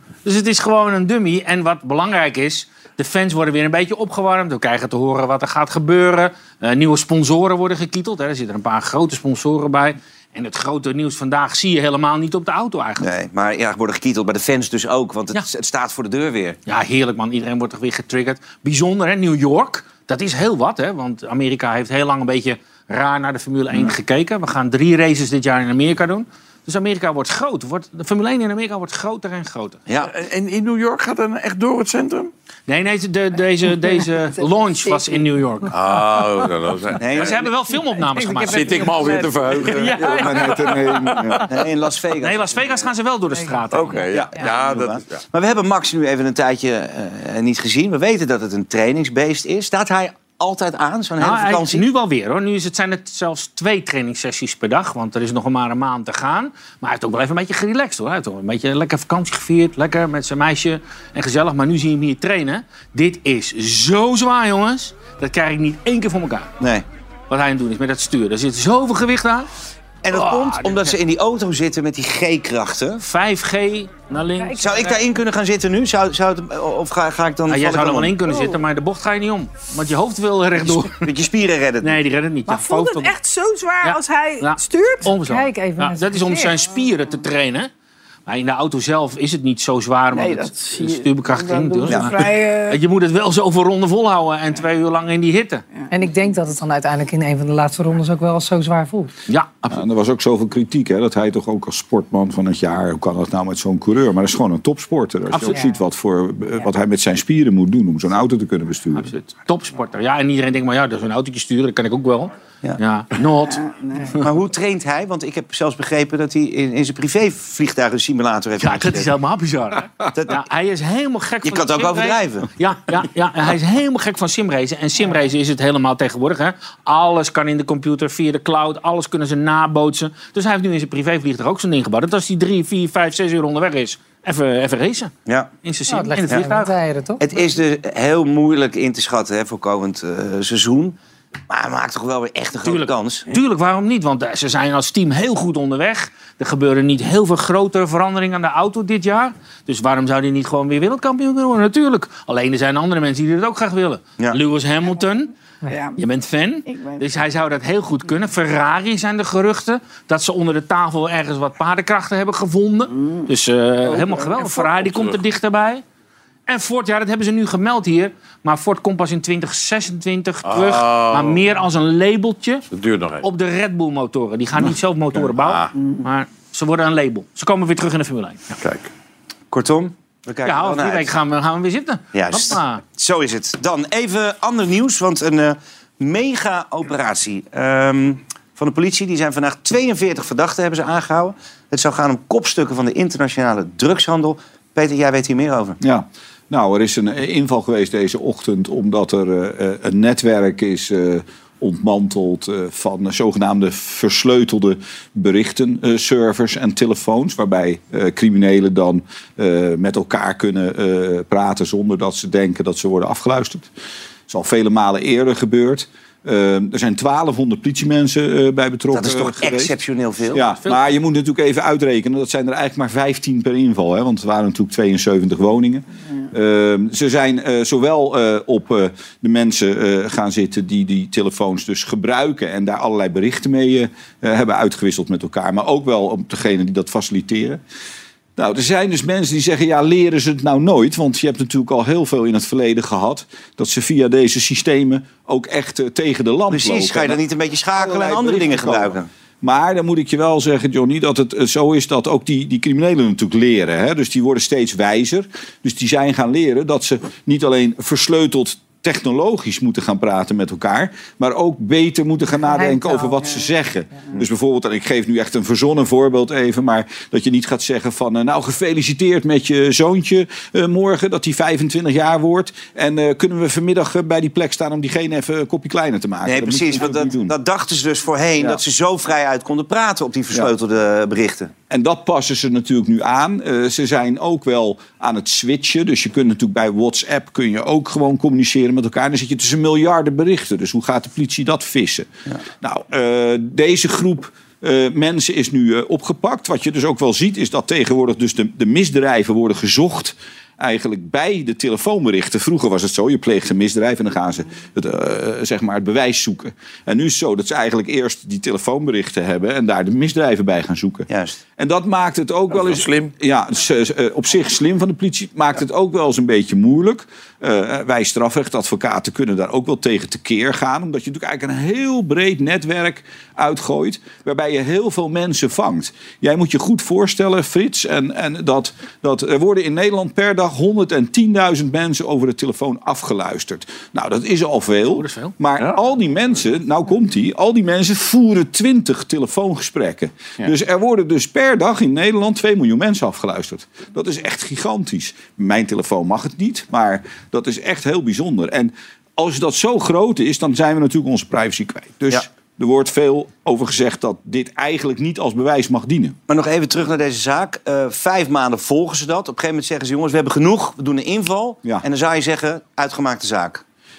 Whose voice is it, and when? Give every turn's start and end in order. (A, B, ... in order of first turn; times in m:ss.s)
0:00.2-0:13.1 A
0:13.0-0:16.6 B
0:16.7-0:29.8 A
0:30.1-0:32.3 C
0:32.7-0:35.8 A
0:34.4-0:35.4 D
0:35.7-0:37.4 C
0:37.0-0:37.5 B
0:37.1-0:39.2 A
0:38.0-0:41.5 E
0:38.4-0:40.4 C
0:40.0-0:41.4 F
0:41.4-0:42.9 B
0:42.2-0:44.1 A
0:43.7-0:45.2 C
0:44.1-0:51.8 B
0:51.2-1:06.5 A
1:06.6-1:06.8 B
1:07.3-1:09.5 A
1:10.0-1:13.0 B
1:10.1-1:11.0 A
1:13.0-1:15.0 A
1:14.6-1:18.4 B
1:17.5-1:21.1 A
1:20.7-1:22.0 B
1:21.8-1:23.1 A
1:22.5-1:25.1 D
1:23.8-1:27.7 A
1:25.2-1:26.6 E
1:28.3-1:35.6 A
1:30.1-1:32.8 D
1:35.9-1:39.1 E
1:39.3-1:39.7 A
1:39.7-1:49.1 F
1:45.3-1:45.6 A
1:45.5-1:45.8 E
1:49.0-1:54.3 A
1:53.5-1:54.2 D
1:54.2-1:59.1 B
1:58.6-2:15.1 A
2:00.1-2:00.4 B
2:01.4-2:02.5 B
2:15.6-2:16.7 A
2:15.9-2:17.3 E
2:17.2-2:21.0 B
2:21.5-2:23.3 B
2:22.6-2:35.3 A
2:35.7-2:36.0 D
2:36.0-2:45.8 A
2:36.7-2:37.1 D
2:42.9-2:43.3 D
2:43.9-2:44.7 D
2:44.5-2:45.2 C
2:46.5-2:52.7 A
2:50.4-2:51.4 C
2:52.7-2:53.2 C
2:53.2-2:58.6 A
2:55.3-2:55.7 C
2:58.6-2:58.9 C
2:59.5-3:01.1 B
3:00.4-3:02.8 A
3:02.1-3:15.8 B
3:15.8-3:33.7 F
3:34.3-3:39.8 F
3:38.9-3:40.5 B
3:40.3-3:57.6 F
3:58.4-4:07.2 F
4:06.5-4:09.1 B
4:07.7-4:37.3 F
4:22.5-4:23.3 E
4:36.2-4:41.5 B
4:41.7-4:52.1 F
4:52.6-5:56.2 F
5:11.1-5:11.4 B
5:12.5-5:13.1 C
5:35.0-5:35.3 A
5:56.3-6:03.6 B